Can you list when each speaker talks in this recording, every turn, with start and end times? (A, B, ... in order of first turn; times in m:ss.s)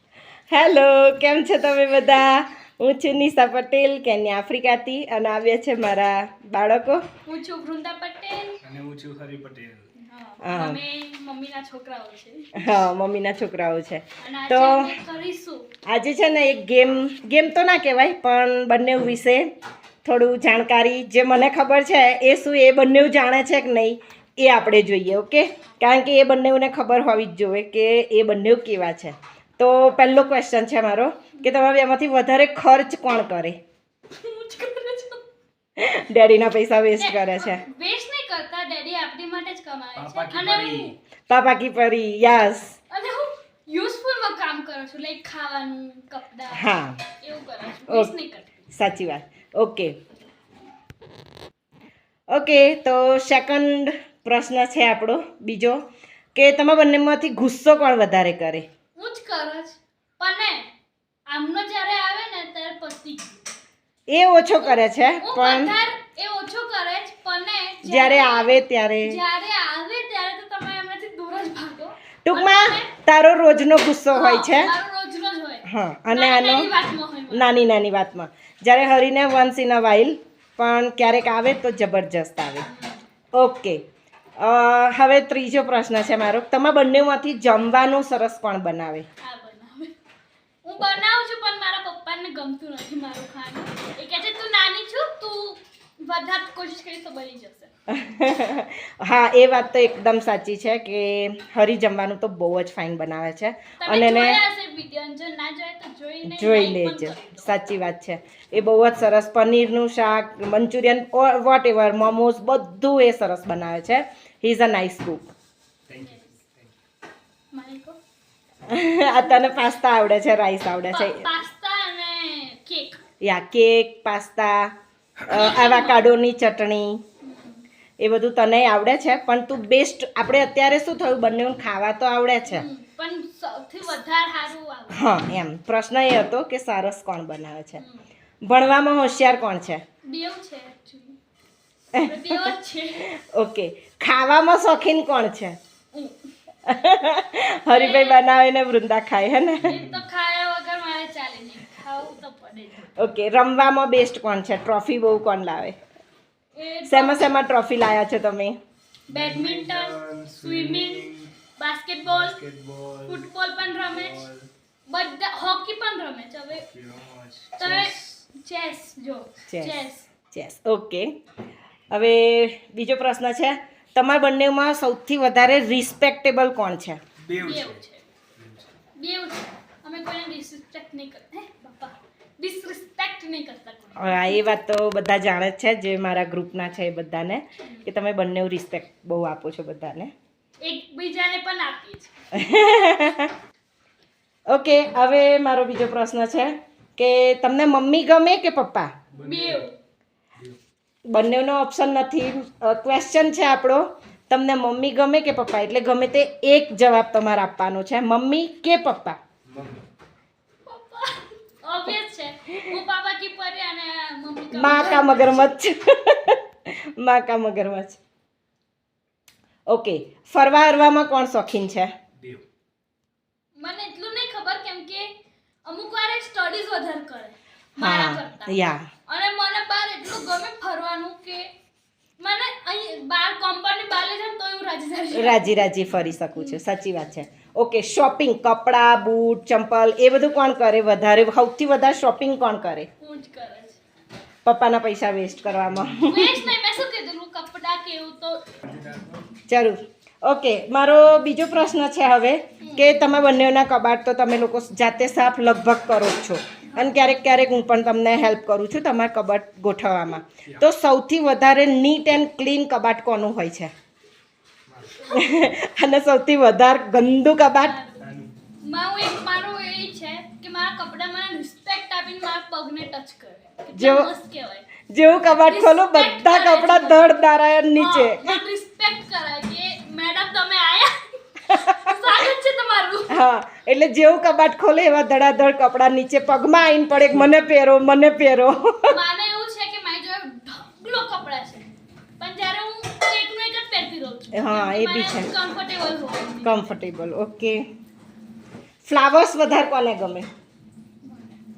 0:00.5-0:07.0 A
0:07.2-0:08.6 B
0:08.6-0:09.8 C
0:10.0-0:12.6 B
0:10.4-0:10.8 A
0:12.6-0:14.9 A
0:14.2-0:15.7 B
0:15.8-0:19.5 A
0:20.0-0:33.6 A
0:34.1-0:35.2 B
0:35.8-0:37.6 A
0:37.0-0:41.0 B
0:40.0-0:40.9 C
0:41.3-0:42.8 A
0:42.9-0:48.6 B
0:46.5-0:47.0 A
0:47.9-0:48.1 A
0:48.7-0:50.0 A
0:52.3-0:55.8 A
0:56.4-0:58.7 A
0:59.0-1:00.7 B
1:01.3-1:03.4 B
1:04.1-1:05.7 A
1:04.6-1:12.9 B
1:07.8-1:09.2 A
1:12.2-1:14.7 A
1:14.1-1:17.5 B
1:15.6-1:16.7 A
1:17.3-1:22.6 A
1:22.6-1:23.0 B
1:23.3-1:23.8 A
1:24.4-1:29.0 A
1:29.2-1:30.0 B
1:30.6-1:37.7 B
1:37.9-1:44.4 A
1:43.8-1:47.5 B
1:46.2-1:55.2 A
1:55.9-1:56.8 C
1:56.0-1:56.3 B
1:57.5-1:58.0 B
1:58.7-2:01.3 A
2:00.9-2:03.0 B
2:03.2-2:04.7 A
2:05.2-2:07.0 A
2:05.3-2:06.1 B
2:07.2-2:07.6 B
2:08.0-2:12.6 A
2:12.4-2:15.2 B
2:14.9-2:17.8 A
2:17.8-2:18.0 B
2:18.4-2:19.8 A
2:20.1-2:21.2 B
2:21.9-2:22.5 A
2:22.0-2:23.1 B
2:23.0-2:25.6 A
2:25.9-2:26.3 B
2:26.6-2:29.8 A
2:27.7-2:28.2 B
2:29.6-2:30.0 C
2:29.6-2:33.0 B
2:33.0-2:35.8 A
2:36.5-2:37.3 B
2:36.9-2:38.6 A
2:39.1-2:41.3 C
2:39.1-2:42.4 B
2:42.0-2:44.5 C
2:43.1-2:44.2 B
2:44.9-2:46.7 B
2:46.5-2:48.2 C
2:47.6-2:50.1 B
2:49.5-2:49.8 A
2:50.3-2:51.1 A
2:51.9-2:57.0 A
2:57.2-2:57.8 C
2:57.4-2:58.0 B
2:58.4-2:58.7 C
2:59.0-3:04.5 B
3:04.0-3:10.1 A
3:07.6-3:07.9 B
3:10.6-3:12.1 B
3:12.3-3:13.3 A
3:14.5-3:19.0 A
3:19.1-3:19.6 C
3:19.2-3:19.7 B
3:21.1-3:29.2 A
3:29.4-3:29.8 C
3:30.6-3:35.5 B
3:34.5-3:38.0 A
3:39.7-3:41.9 A
3:42.2-3:42.4 C
3:43.6-3:45.1 B
3:45.6-3:48.6 B
3:47.8-3:48.9 A
3:49.1-3:51.5 B
3:52.2-3:55.7 B
3:55.1-4:02.9 A
4:03.0-4:03.8 B
4:04.4-4:06.5 A
4:06.0-4:08.5 B
4:08.6-4:09.2 C
4:09.5-4:23.7 A
4:12.6-4:13.0 B
4:16.7-4:17.1 B
4:24.7-4:25.2 C
4:25.1-4:27.8 A
4:27.6-4:28.0 B
4:28.0-4:28.3 C
4:28.6-4:34.7 B
4:33.8-4:34.1 A
4:34.9-4:38.4 A
4:35.4-4:37.2 B
4:37.7-4:43.2 B
4:41.5-4:41.9 A
4:43.1-4:48.9 A
4:48.9-4:51.7 B
4:52.2-4:56.7 B
4:54.3-4:55.3 A
4:56.4-4:57.6 A
4:58.8-5:00.3 A
5:01.0-5:01.4 B